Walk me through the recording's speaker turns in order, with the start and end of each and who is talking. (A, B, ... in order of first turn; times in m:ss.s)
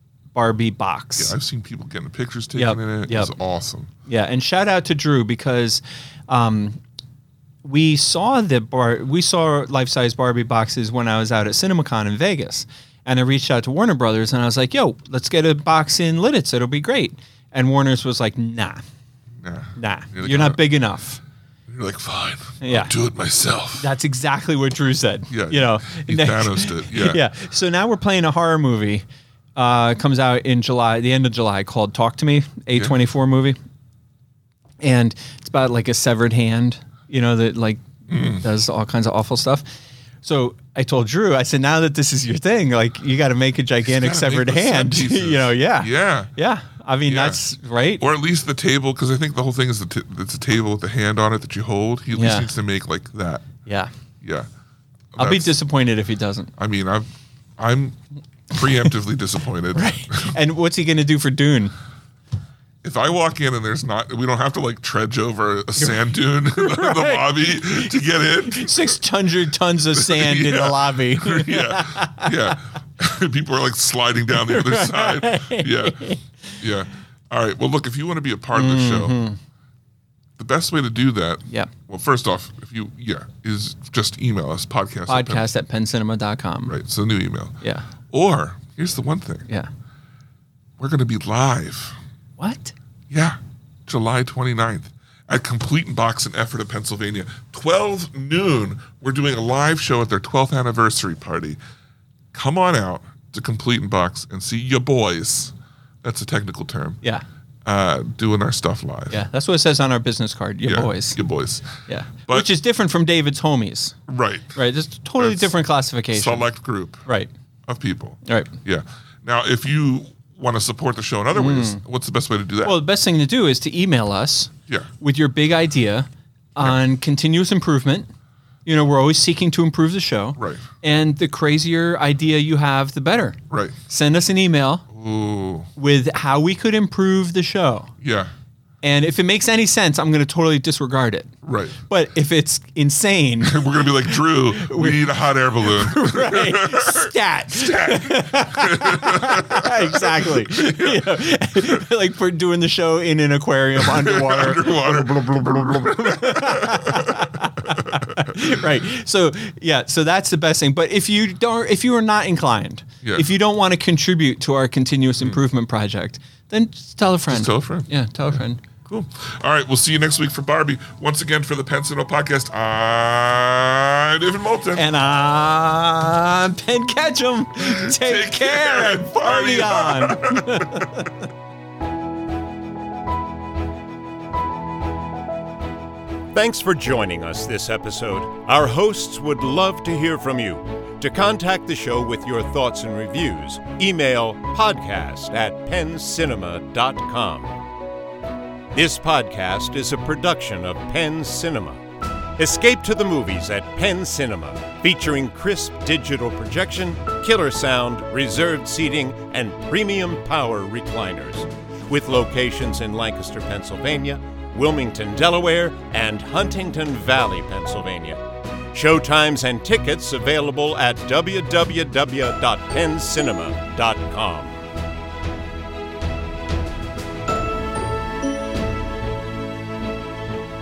0:00.3-0:01.3 A
0:01.2-0:03.9 B
0:02.5-0:03.3 A
0:04.1-0:06.8 A
0:07.6-0:18.8 A
0:19.4-0:20.6 B
0:19.8-0:21.2 A
0:21.7-0:23.9 B
0:22.6-0:22.9 A
0:23.8-0:29.0 A
0:25.3-0:27.2 B
0:29.6-0:33.6 A
0:34.8-0:39.6 A
0:38.1-0:38.4 B
0:40.2-0:48.0 A
0:43.8-0:46.3 B
0:47.0-0:47.4 B
0:48.0-0:53.5 B
0:52.2-0:52.5 A
0:53.6-0:53.9 A
0:54.2-0:54.5 B
0:55.1-0:55.5 B
0:55.2-0:56.5 A
0:56.6-0:58.0 B
0:58.5-1:00.4 B
0:59.7-1:01.7 A
1:02.8-1:09.0 B
1:05.8-1:12.6 A
1:09.9-1:16.1 B
1:14.3-1:16.6 A
1:16.6-1:19.2 B
1:18.5-1:19.4 A
1:20.4-1:25.4 B
1:25.1-1:26.7 A
1:26.6-1:29.5 B
1:27.6-1:27.9 A
1:30.8-1:32.0 B
1:32.4-1:32.7 A
1:33.1-1:41.6 B
1:42.3-1:47.0 B
1:47.6-1:49.2 B
1:49.1-1:51.2 A
1:50.6-1:52.5 B
1:51.9-1:54.0 A
1:54.1-1:54.6 B
1:54.5-1:56.5 A
1:55.2-1:55.6 B
1:56.1-1:57.1 B
1:57.7-2:02.8 B
1:58.2-1:58.5 A
2:01.3-2:01.8 A
2:02.6-2:08.1 A
2:08.6-2:14.8 A
2:10.4-2:10.6 B
2:13.5-2:13.8 B
2:14.9-2:15.7 B
2:15.8-2:17.9 A
2:18.0-2:18.3 B
2:18.8-2:21.3 A
2:21.4-2:21.8 B
2:21.9-2:48.6 A
2:23.4-2:31.8 B
2:33.8-2:38.5 B
2:43.0-2:43.3 B
2:47.3-2:47.9 B
2:48.8-2:54.9 B
2:54.7-3:01.3 A
2:57.6-3:01.1 B
3:06.3-3:17.5 C
3:18.7-3:21.8 C
3:22.4-3:38.2 C
3:38.7-3:44.6 C